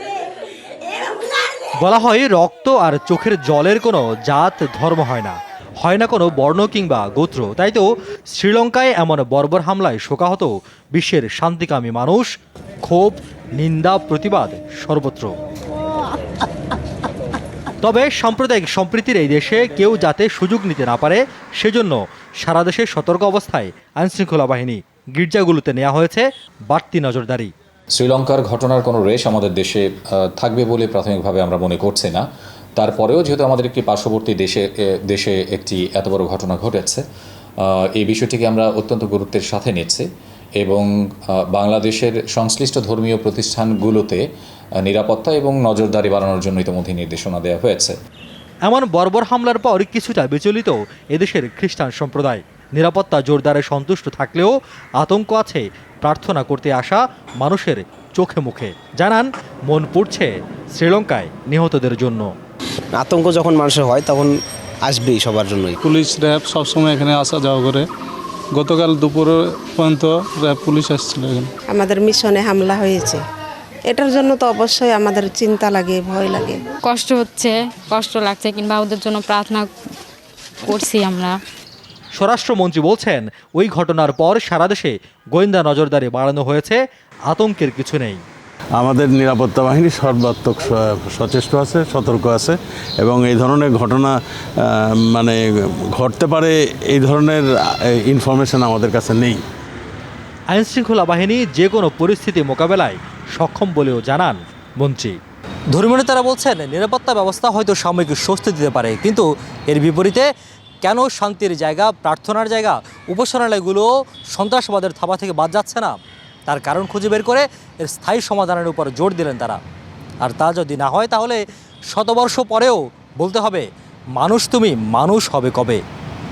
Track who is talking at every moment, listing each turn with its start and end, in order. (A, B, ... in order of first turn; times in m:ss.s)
0:01.8-0:12.3 A
0:12.8-0:15.3 A
0:17.8-0:27.5 A
0:28.0-0:32.2 B
0:32.8-0:37.0 B
0:37.6-0:40.1 B
0:40.6-0:40.9 B
0:41.5-0:44.2 B
0:44.8-0:48.0 B
0:48.6-1:02.3 A
1:03.0-1:04.3 C
1:04.9-1:05.8 C
1:05.8-1:07.9 D
1:08.5-1:11.5 D
1:11.7-1:13.2 E
1:13.9-1:16.6 E
1:16.8-1:19.7 F
1:20.6-1:21.4 F
1:22.2-1:28.2 A
1:28.8-1:39.4 G
1:40.5-1:45.2 A
1:45.7-1:50.3 A
1:50.8-1:59.6 A
2:00.2-2:05.8 A